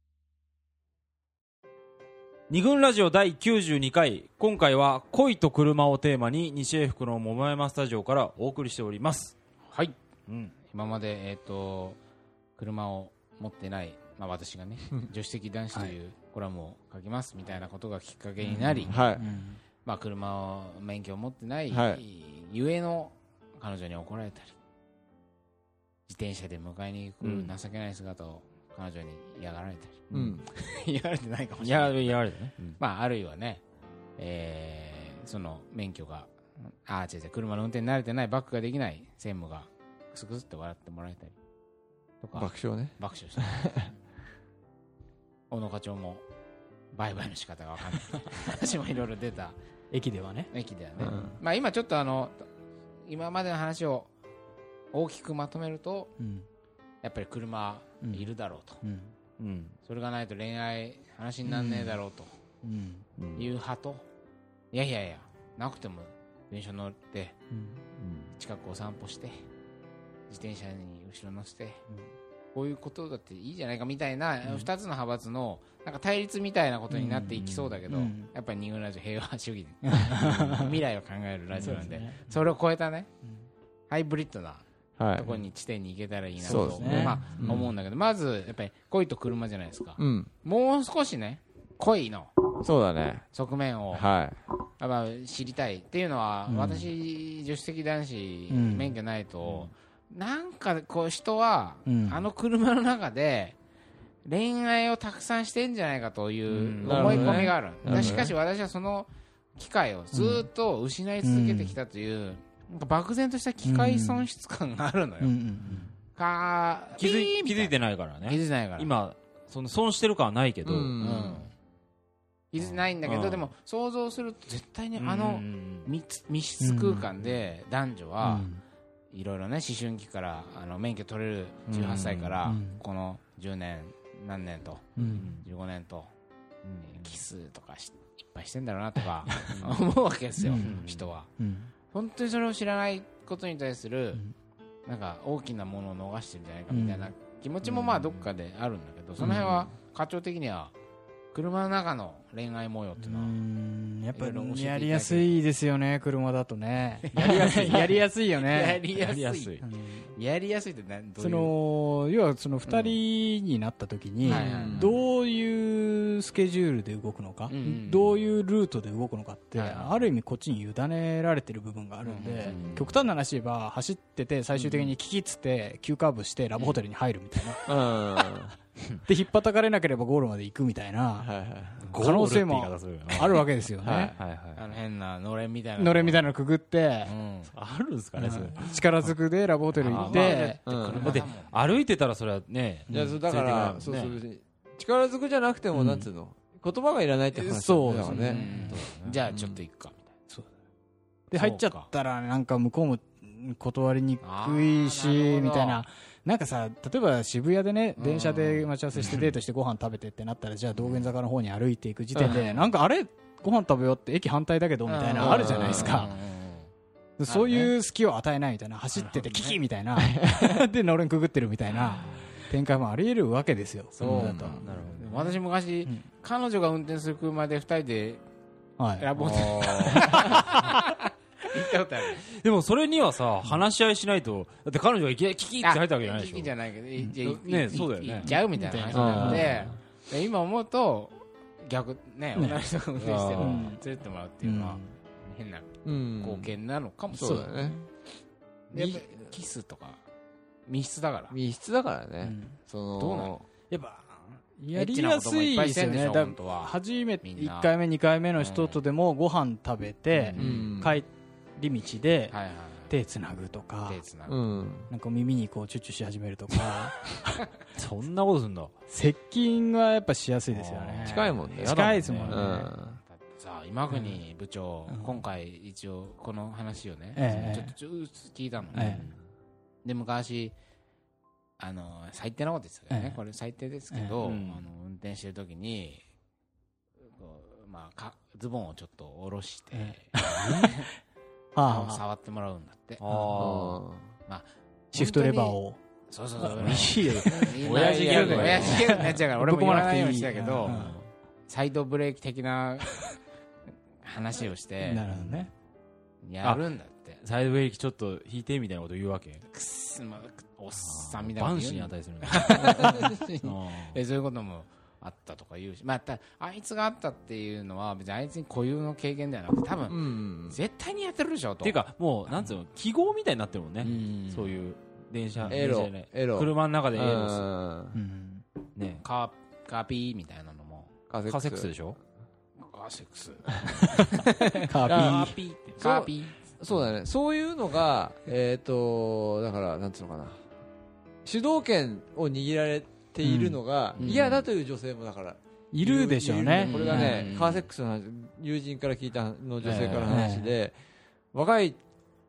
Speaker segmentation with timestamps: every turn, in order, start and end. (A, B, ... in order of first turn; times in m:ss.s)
0:02.5-0:09.4 A
0:09.7-0:10.0 B
0:10.5-0:12.0 B
0:12.6-0:19.1 B
0:18.5-0:18.7 A
0:18.8-0:19.2 C
0:19.2-0:19.6 D
0:19.8-0:24.6 B
0:21.7-0:22.0 C
0:26.1-0:32.2 B
0:27.2-0:27.5 A
0:30.1-0:30.5 C
0:31.6-0:32.8 A
0:32.8-0:33.6 B
0:34.2-0:41.4 B
0:42.2-0:43.9 B
0:42.3-0:43.9 C
0:45.5-0:46.2 B
0:46.9-0:49.6 B
0:49.9-0:50.5 D
0:50.5-0:52.5 B
0:51.0-0:51.4 C
0:53.1-0:54.1 B
0:54.9-0:56.1 B
0:56.2-0:56.5 D
0:57.0-0:58.8 B
0:58.0-0:58.3 D
0:58.8-0:59.2 D
0:59.4-0:59.8 A
0:59.8-1:02.3 B
1:01.5-1:02.0 D
1:02.6-1:03.1 D
1:03.2-1:03.5 A
1:03.4-1:04.0 B
1:04.7-1:07.4 B
1:07.5-1:07.8 D
1:08.0-1:08.3 A
1:08.4-1:09.4 B
1:10.3-1:11.8 B
1:12.5-1:23.1 B
1:16.9-1:18.3 D
1:17.5-1:17.7 A
1:19.8-1:20.8 D
1:21.6-1:22.3 D
1:23.9-1:32.4 B
1:25.0-1:25.4 C
1:26.4-1:27.7 C
1:26.4-1:27.5 D
1:30.0-1:30.3 C
1:32.6-1:33.3 C
1:33.3-1:34.1 B
1:33.9-1:34.4 C
1:34.8-1:43.6 B
1:36.5-1:36.9 D
1:38.5-1:39.0 D
1:41.9-1:42.2 D
1:44.2-1:55.3 B
1:46.5-1:47.0 A
1:46.8-1:48.2 D
1:46.8-1:48.3 C
1:50.1-1:50.5 D
1:51.2-1:51.8 D
1:53.6-1:54.2 D
1:55.2-1:55.9 D
1:56.2-1:58.9 B
1:57.0-2:01.0 A
2:00.6-2:01.4 C
2:01.0-2:01.5 B
2:02.5-2:08.5 B
2:03.0-2:03.5 C
2:05.0-2:05.9 A
2:06.6-2:07.1 D
2:08.2-2:08.6 D
2:09.1-2:16.1 B
2:11.7-2:12.4 A
2:12.4-2:12.8 D
2:15.0-2:15.3 D
2:15.1-2:15.5 A
2:16.6-2:17.2 A
2:16.8-2:21.3 B
2:19.3-2:19.5 D
2:19.4-2:19.8 A
2:20.4-2:20.7 D
2:20.6-2:21.1 A
2:21.4-2:21.7 D
2:21.9-2:24.2 B
2:24.9-2:30.7 B
2:26.7-2:27.1 D
2:27.6-2:28.3 A
2:29.2-2:29.7 A
2:31.3-2:33.4 B
2:33.0-2:38.8 D
2:34.1-2:35.4 B
2:37.0-2:41.5 B
2:38.9-2:39.6 A
2:39.6-2:40.1 D
2:41.2-2:57.6 D
2:42.7-2:43.0 B
2:44.2-2:45.0 B
2:44.3-2:45.0 C
2:47.5-2:48.2 B
2:49.6-2:50.1 B
2:52.0-2:53.0 B
2:52.5-2:52.7 A
2:54.6-2:54.9 B
2:57.7-2:58.6 C
2:59.1-3:01.3 D
3:01.2-3:01.8 C
3:01.8-3:03.5 A
3:02.0-3:04.1 D
3:03.8-3:04.1 C
3:04.2-3:04.7 A
3:04.6-3:06.3 B
3:05.8-3:07.1 D
3:07.0-3:07.5 B
3:07.5-3:09.1 A
3:08.2-3:11.2 D
3:09.8-3:11.8 B
3:09.8-3:14.2 A
3:10.7-3:11.2 C
3:12.9-3:18.4 C
3:15.7-3:16.1 D
3:17.3-3:18.8 D
3:18.1-3:20.1 B
3:18.7-3:19.2 A
3:19.3-3:19.6 C
3:21.3-3:36.1 D
3:21.3-3:21.9 B
3:24.2-3:25.8 B
3:28.0-3:29.3 B
3:29.0-3:29.3 A
3:32.2-3:32.7 B
3:34.9-3:36.7 B
3:35.2-3:36.1 C
3:37.2-3:44.6 D
3:37.3-3:37.7 B
3:39.0-3:39.6 B
3:40.0-3:40.6 C
3:41.9-3:42.2 A
3:44.0-3:44.7 C
3:44.0-3:48.2 B
3:44.1-3:45.4 A
3:48.8-3:49.1 D
3:49.0-3:52.3 B
3:49.2-3:50.5 A
3:49.9-3:50.8 D
3:52.2-3:56.5 A
3:55.6-4:07.5 B
3:57.2-3:58.4 A
3:57.7-3:59.6 D
3:58.9-3:59.7 C
3:59.0-3:59.7 A
4:02.4-4:02.7 D
4:03.0-4:03.7 A
4:03.4-4:03.8 D
4:04.4-4:04.9 D
4:05.8-4:06.5 C
4:07.1-4:07.8 C
4:07.2-4:07.9 D
4:08.7-4:10.0 B
4:08.8-4:09.3 C
4:10.7-4:11.4 B
4:11.3-4:13.4 C
4:12.2-4:12.6 D
4:13.0-4:13.4 B
4:13.7-4:22.4 D
4:14.7-4:17.7 B
4:18.4-4:18.8 B
4:20.1-4:20.6 B
4:20.3-4:20.6 A
4:20.4-4:21.0 C
4:22.3-4:22.9 B
4:22.9-4:24.0 D
4:23.9-4:24.8 B
4:24.3-4:24.9 C
4:24.9-4:27.4 D
4:27.8-4:28.7 A
4:28.9-4:32.7 D
4:30.5-4:32.6 A
4:31.0-4:33.0 C
4:33.1-4:39.1 B
4:33.9-4:34.2 D
4:34.9-4:35.2 D
4:37.2-4:37.7 D
4:37.3-4:37.6 A
4:38.7-4:39.2 A
4:38.7-4:39.0 D
4:39.8-4:40.6 B
4:41.6-4:46.0 B
4:42.9-4:43.2 D
4:43.9-4:44.2 D
4:44.2-4:44.6 A
4:47.1-4:50.9 B
4:49.7-4:50.9 D
4:51.6-4:52.0 D
4:51.6-4:53.0 B
4:53.0-4:53.8 A
4:53.4-4:54.1 C
4:54.3-4:55.6 B
4:54.9-4:55.8 D
4:56.1-5:00.9 B
4:56.4-5:01.0 D
4:56.6-4:59.2 A
4:57.4-4:58.9 C
5:00.6-5:01.1 A
5:01.5-5:03.1 B
5:04.0-5:05.1 B
5:04.8-5:05.5 D
5:05.1-5:05.4 A
5:06.2-5:07.2 B
5:07.2-5:09.4 A
5:09.5-5:21.8 B
5:10.7-5:14.0 A
5:12.6-5:13.3 C
5:19.9-5:20.6 C
5:21.6-5:27.5 A
5:23.8-5:24.6 B
5:25.5-5:28.0 C
5:27.9-5:28.4 D
5:28.8-5:29.0 A
5:29.0-5:30.9 B
5:31.1-5:31.7 C
5:31.3-5:32.0 A
5:32.6-5:36.4 B
5:34.0-5:35.3 D
5:34.9-5:40.4 C
5:41.2-5:50.8 C
5:43.2-5:43.6 D
5:44.0-5:44.4 B
5:45.7-5:47.2 D
5:46.6-5:47.7 B
5:49.6-5:50.3 B
5:50.0-5:50.5 D
5:51.3-5:51.8 C